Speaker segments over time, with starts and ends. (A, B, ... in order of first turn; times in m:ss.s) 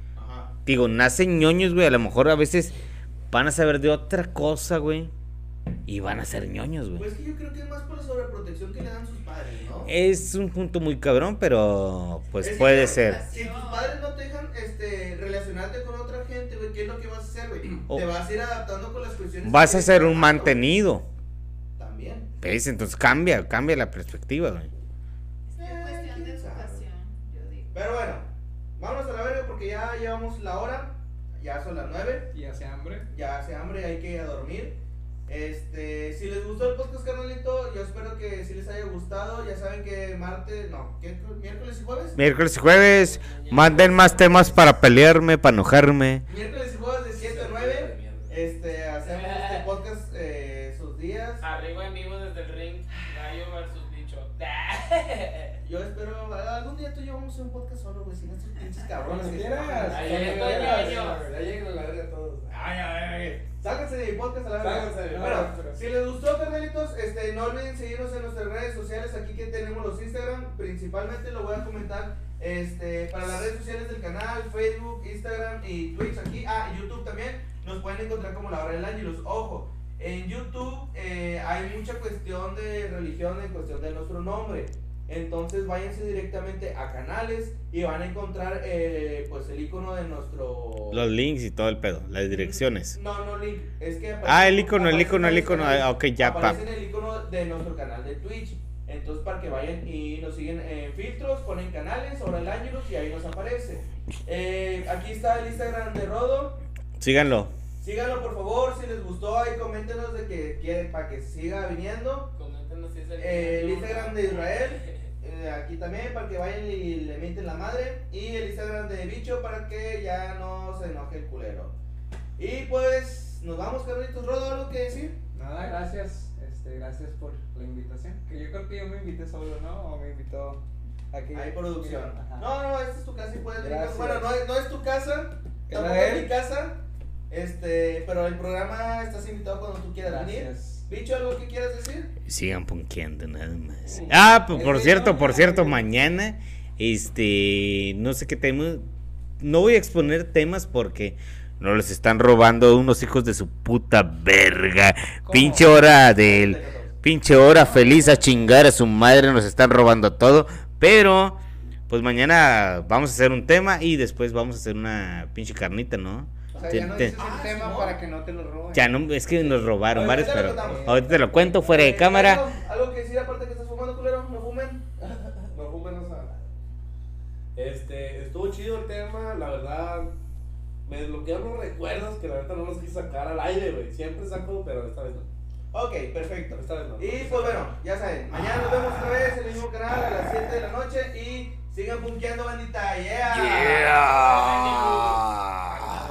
0:00.2-0:00.5 A
0:00.6-0:02.7 B
0:03.3-0:05.1 B
0:05.9-0:07.1 B
0:07.0-0:09.9 A
0:09.8-0:13.2 B
0:12.4-0:20.7 A
0:12.7-0:14.0 C
0:19.4-0:21.0 B
0:21.8-0:22.3 A
0:22.4-0:24.7 B
0:25.4-0:28.0 C
0:25.6-0:26.8 A
0:27.7-0:32.3 A
0:32.3-0:33.1 D
0:33.1-0:42.2 A
0:42.2-0:46.2 B
0:42.7-0:44.6 E
0:46.3-0:51.4 A
0:47.2-0:48.3 F
0:49.0-0:49.6 E
0:51.4-0:55.6 E
0:55.6-1:00.2 A
0:59.0-1:01.1 D
0:59.8-1:02.8 F
0:59.9-1:01.2 E
1:02.6-1:31.1 A
1:04.6-1:05.5 F
1:05.1-1:05.8 D
1:30.9-1:33.0 B
1:32.3-1:46.6 A
1:34.2-1:36.6 B
1:47.0-1:47.5 B
1:47.8-1:52.3 A
1:52.4-1:54.9 E
1:53.2-2:01.7 A
2:02.4-2:05.2 A
2:05.3-2:12.5 D
2:11.3-2:22.1 A
2:13.6-2:14.3 D
2:15.7-2:16.3 D
2:20.0-2:20.9 D
2:22.2-2:28.9 B
2:23.8-2:24.2 F
2:24.5-2:25.9 D
2:29.4-2:47.2 B
2:35.2-2:35.7 D
2:35.6-2:37.0 A
2:46.5-2:48.0 A
2:46.5-2:48.9 D
2:48.7-2:52.4 B
2:49.9-2:54.9 A
2:50.4-2:51.7 D
2:55.5-2:56.5 F
2:57.5-3:00.1 F
3:00.8-3:05.3 F
3:05.7-3:14.0 A
3:06.5-3:07.7 F
3:13.8-3:15.5 E
3:13.9-3:14.3 B
3:15.4-3:15.8 B